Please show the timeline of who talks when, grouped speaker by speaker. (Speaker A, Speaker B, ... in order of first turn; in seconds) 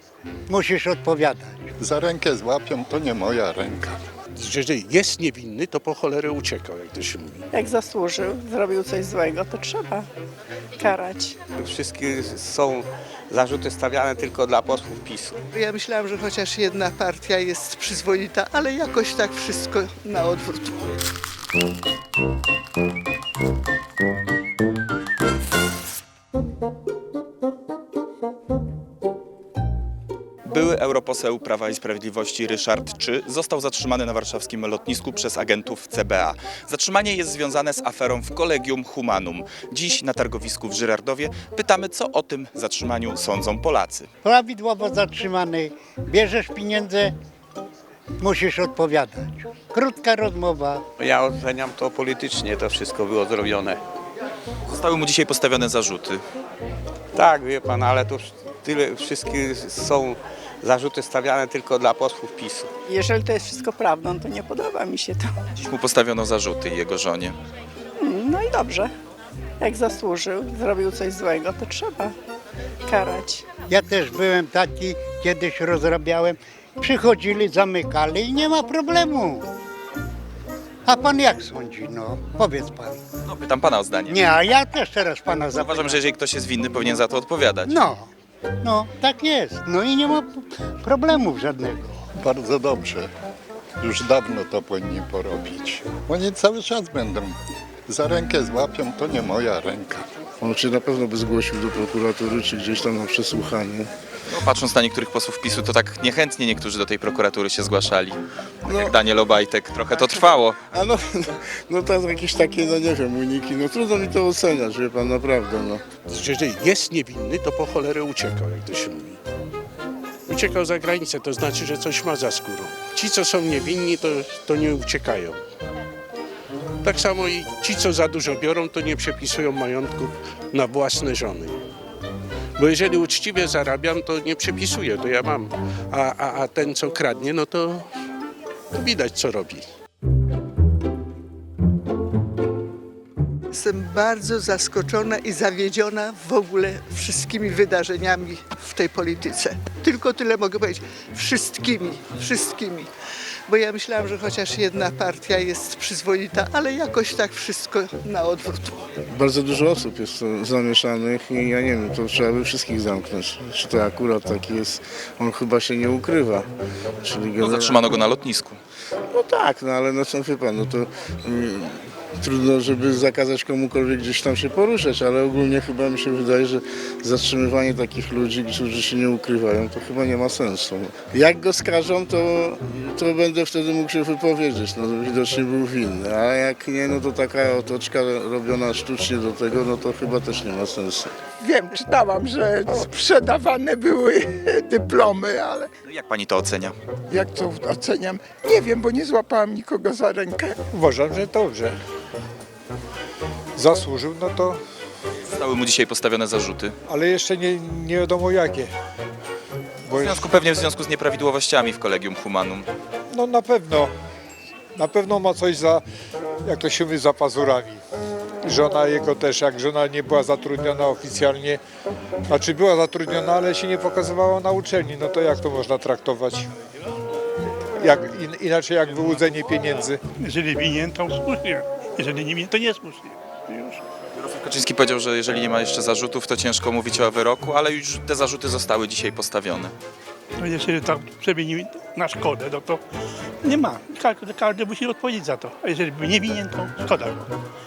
Speaker A: 0.5-1.7, 44.2-47.1, 48.2-50.8, 73.7-79.5, 80.9-83.0, 84.1-86.0, 87.7-88.1, 88.6-92.0
Speaker B: 1.8-4.0, 92.2-93.1, 93.8-97.4, 97.9-100.1
Speaker C: 4.3-7.4, 116.0-119.2, 120.3-125.4, 126.8-131.6, 132.6-137.9, 138.8-139.7
Speaker D: 7.5-10.1, 10.8-11.4, 62.9-65.3, 68.0-68.9, 69.6-72.1, 72.9-73.4
Speaker E: 11.6-15.4, 51.0-53.8, 57.1-62.7
Speaker F: 15.5-21.0, 143.5-152.9, 153.5-158.9
Speaker G: 30.5-44.1, 54.7-56.2, 65.6-67.4, 83.2-84.2, 85.6-87.7, 104.3-110.6, 167.4-168.6, 195.9-196.8, 205.3-206.8, 209.9-212.7, 234.2-239.7
Speaker H: 100.4-103.9, 108.7-109.0, 109.9-116.0, 159.1-166.5, 167.0-167.9, 169.1-191.1
Speaker I: 191.4-195.7, 197.1-200.6
Speaker J: 200.7-201.8, 203.6-204.6, 206.9-208.7, 209.9-210.3, 213.1-213.9, 214.8-215.8, 216.5-217.8, 218.4-221.6, 222.3-226.5, 227.8-230.0
Speaker K: 230.2-233.8, 240.4-242.8, 243.4-247.3